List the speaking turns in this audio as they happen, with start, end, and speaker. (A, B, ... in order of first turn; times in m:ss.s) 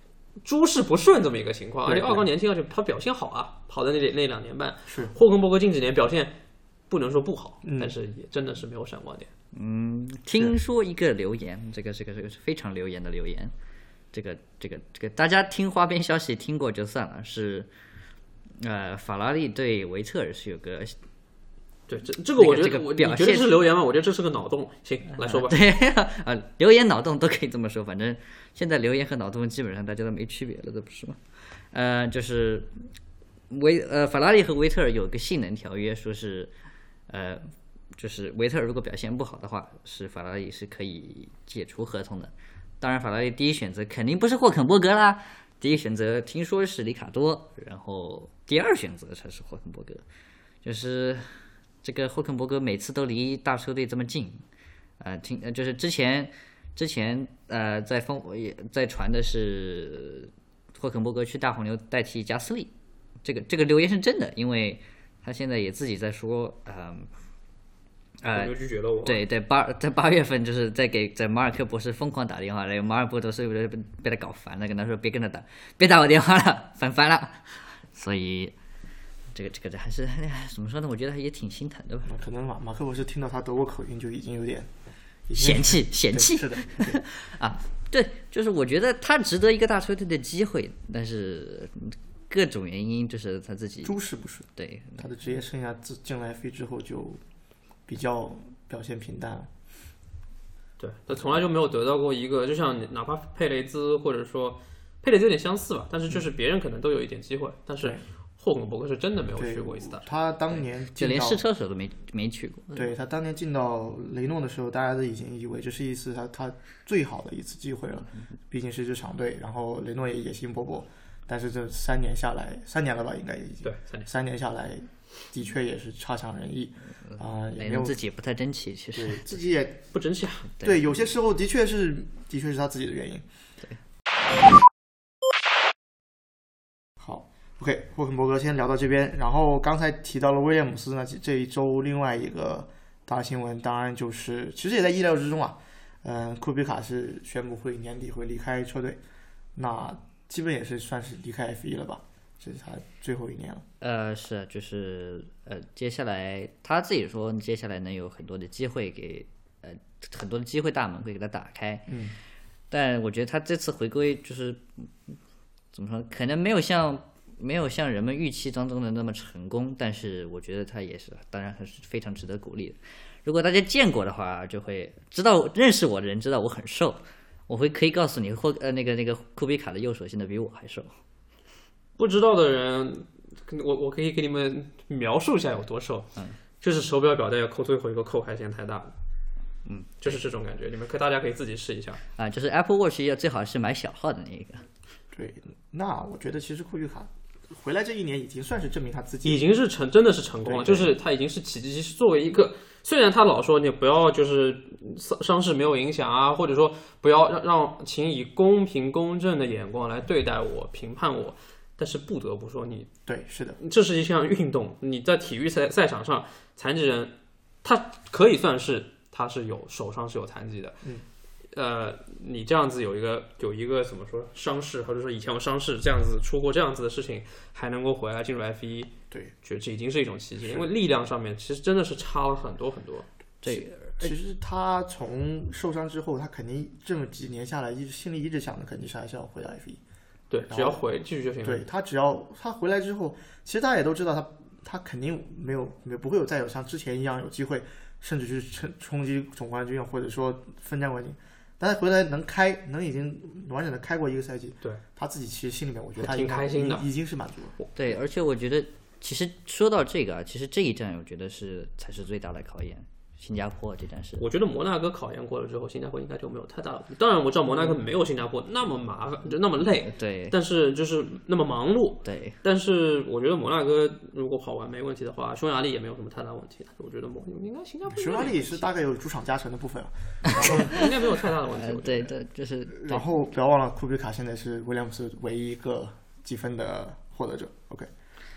0:00.4-0:06.4 A
0:01.9-0:02.2 B
0:04.9-0:05.1 B
0:06.9-0:09.3 A
0:07.6-0:07.9 B
0:09.5-0:13.5 C
0:14.1-0:17.7 C
0:18.6-0:21.0 C
0:21.9-0:25.6 A
0:22.4-0:23.6 C
0:25.1-0:31.2 C
0:31.7-0:32.8 C
0:33.5-0:36.5 C
0:37.1-0:50.0 C
0:50.6-0:51.3 C
0:51.8-0:54.4 C
0:55.0-1:02.7 C
1:03.2-1:07.1 C
1:08.2-1:18.5 C
1:08.3-1:09.2 A
1:19.3-1:22.1 C
1:22.0-1:24.7 B
1:25.3-1:27.0 B
1:25.4-1:34.0 C
1:33.8-1:37.2 B
1:34.6-1:35.0 C
1:37.9-1:39.5 B
1:40.8-1:50.1 A
1:49.4-1:51.4 B
1:50.6-1:52.9 C
1:52.7-2:08.0 B
2:03.6-2:04.1 A
2:07.1-2:09.4 C
2:08.9-2:09.8 B
2:09.9-2:10.5 A
2:10.6-2:13.2 B
2:17.0-2:29.0 B
2:29.6-2:33.6 B
2:33.8-2:41.9 C
2:41.9-2:42.2 B
2:42.7-2:45.2 C
2:45.7-3:00.9 C
3:02.0-3:06.1 A
3:06.6-3:08.9 A
3:09.6-3:10.2 C
3:10.0-3:12.0 A
3:12.2-3:14.6 C
3:15.1-3:19.4 B
3:19.2-3:32.9 A
3:20.4-3:20.9 B
3:33.0-3:33.6 B
3:33.6-3:40.8 A
3:41.5-3:53.1 A
3:53.4-3:54.1 C
3:53.5-3:59.8 B
4:00.3-4:01.6 A
4:00.5-4:00.8 B
4:01.4-4:17.6 B
4:16.0-4:16.9 A
4:17.7-4:24.2 C
4:24.2-4:38.7 A
4:29.8-4:30.3 C
4:32.0-4:32.4 C
4:37.9-4:40.8 B
4:40.3-4:40.9 C
4:40.4-4:42.1 A
4:41.5-4:43.0 C
4:42.7-4:47.9 B